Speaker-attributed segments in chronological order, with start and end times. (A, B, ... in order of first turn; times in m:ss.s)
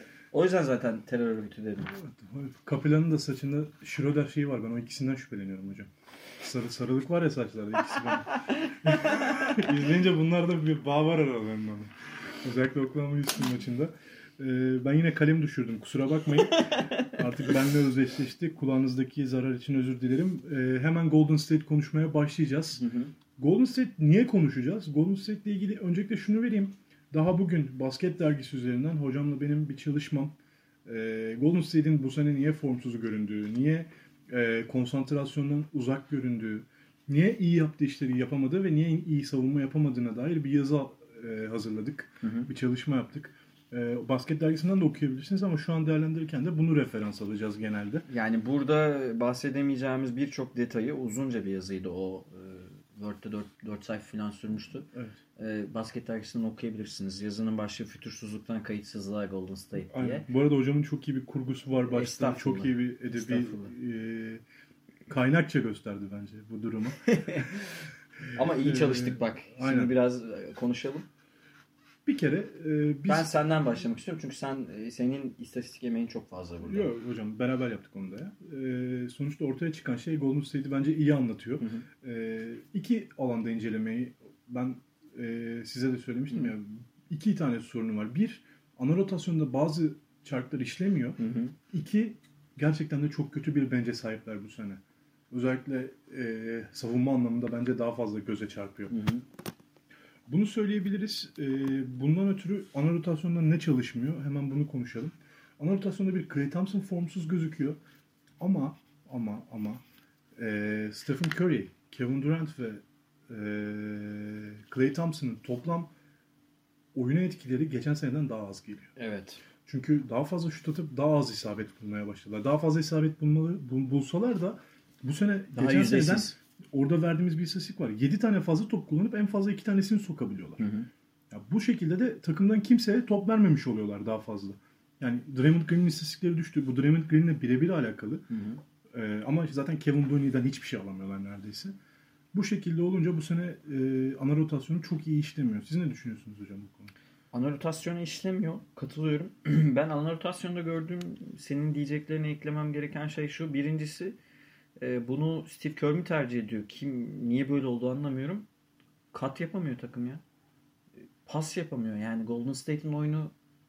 0:00.3-0:01.9 A
0:01.9-0:22.8 B
0:08.3-0:09.6 A
0:16.5-0:17.2 A
0:22.8-0:23.1 A
0:23.4-0:48.1 B
0:42.2-0:42.5 A
0:48.1-1:00.3 A
0:54.9-0:55.2 B
0:59.9-1:04.4 B
1:01.9-1:03.7 A
1:05.1-1:07.4 B
1:07.0-1:07.6 A
1:08.3-1:09.9 B
1:08.3-1:11.1 A
1:12.0-1:13.4 B
1:13.0-1:16.9 A
1:16.6-1:31.2 B
1:21.6-1:21.8 A
1:31.2-1:31.5 A
1:31.7-1:39.0 B
1:38.9-1:39.2 A
1:40.3-1:47.8 B
1:48.4-1:49.8 B
1:50.4-1:55.9 B
1:56.9-1:58.9 B
1:59.0-1:59.4 A
1:59.6-2:10.7 B
2:05.5-2:06.3 A
2:10.6-2:10.9 A
2:11.3-2:18.2 B
2:18.3-2:18.6 A
2:18.9-2:21.8 B
2:22.3-2:26.9 B
2:27.3-2:34.2 A
2:34.8-2:38.5 A
2:39.1-2:40.2 A
2:41.2-2:43.3 A